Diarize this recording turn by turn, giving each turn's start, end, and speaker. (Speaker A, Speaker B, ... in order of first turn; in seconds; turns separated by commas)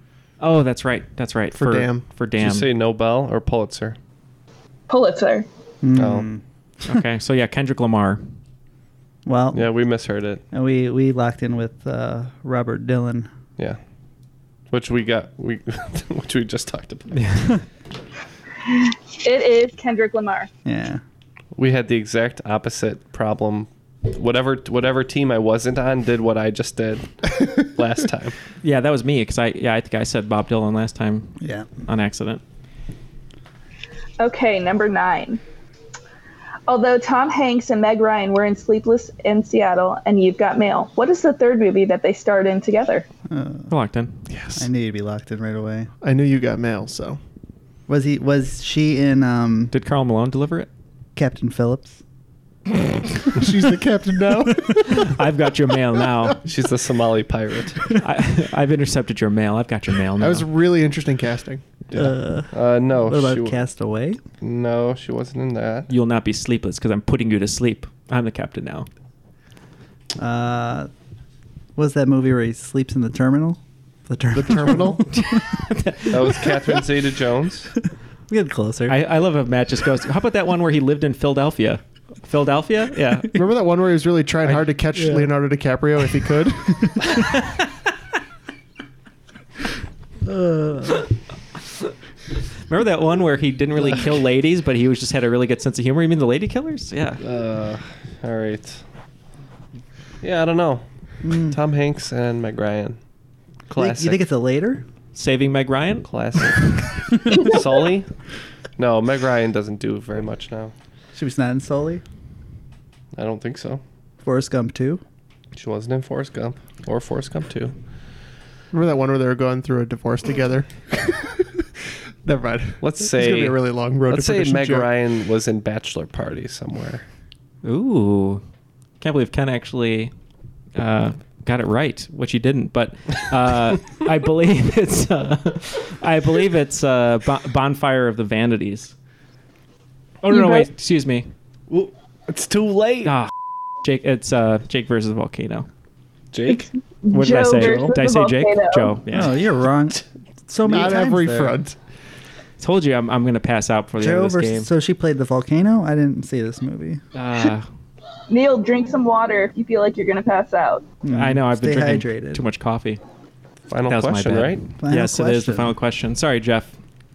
Speaker A: 0.4-2.7, Speaker B: 1.5-2.0, Speaker C: 2.4-4.0, Speaker D: 4.9-5.5, Speaker E: 5.8-6.4, Speaker C: 5.9-6.3, Speaker A: 6.8-8.3, Speaker E: 9.2-9.7, Speaker C: 9.5-10.4, Speaker E: 10.5-13.3, Speaker C: 14.7-17.2, Speaker A: 17.1-17.6, Speaker D: 18.7-20.5, Speaker E: 20.6-21.0, Speaker C: 21.6-27.1, Speaker C: 27.7-28.3, Speaker A: 28.6-32.4, Speaker E: 31.4-31.7, Speaker D: 34.2-35.4, Speaker D: 36.7-43.0, Speaker E: 43.3-43.7, Speaker A: 43.7-44.2, Speaker B: 44.3-44.6, Speaker E: 44.5-45.9, Speaker B: 46.0-47.2, Speaker E: 47.9-49.7, Speaker A: 49.7-50.7, Speaker E: 51.1-52.0, Speaker B: 53.3-55.2, Speaker A: 54.9-56.4, Speaker C: 56.4-57.8, Speaker A: 58.0-60.5, Speaker B: 60.2-61.6, Speaker C: 61.9-63.6, Speaker E: 61.9-64.2, Speaker C: 64.4-65.9, Speaker A: 65.9-68.9, Speaker E: 70.2-70.9, Speaker E: 71.8-75.0, Speaker B: 74.3-75.0, Speaker A: 75.1-76.5, Speaker C: 76.1-77.7, Speaker E: 78.3-79.0, Speaker A: 78.9-83.3, Speaker B: 83.3-86.9, Speaker E: 84.9-85.3, Speaker E: 90.2-91.0, Speaker A: 92.7-97.2, Speaker C: 97.2-98.8, Speaker C: 100.2-103.0, Speaker E: 101.2-101.6, Speaker C: 103.7-104.2, Speaker E: 103.7-104.8, Speaker A: 105.1-106.1, Speaker C: 106.0-108.1, Speaker C: 108.8-110.7, Speaker E: 111.1-112.0, Speaker C: 113.2-113.8, Speaker E: 114.2-115.0, Speaker C: 115.5-117.7, Speaker B: 118.7-121.1, Speaker B: 122.2-124.9, Speaker C: 122.8-127.0, Speaker A: 127.6-128.4, Speaker A: 129.0-130.1, Speaker A: 130.8-138.9, Speaker A: 140.2-141.3, Speaker D: 140.3-140.7, Speaker C: 141.7-143.1, Speaker A: 143.0-143.3, Speaker A: 143.8-145.7, Speaker C: 146.3-146.7, Speaker D: 147.0-148.9, Speaker A: 147.1-149.3, Speaker E: 147.5-147.9, Speaker E: 149.1-151.6, Speaker B: 150.7-151.8, Speaker A: 152.6-154.7, Speaker E: 154.0-157.0, Speaker A: 157.1-157.7, Speaker D: 158.3-160.8, Speaker E: 161.0-162.4, Speaker A: 161.1-163.0, Speaker C: 163.7-164.6, Speaker A: 163.9-166.7, Speaker E: 164.8-165.7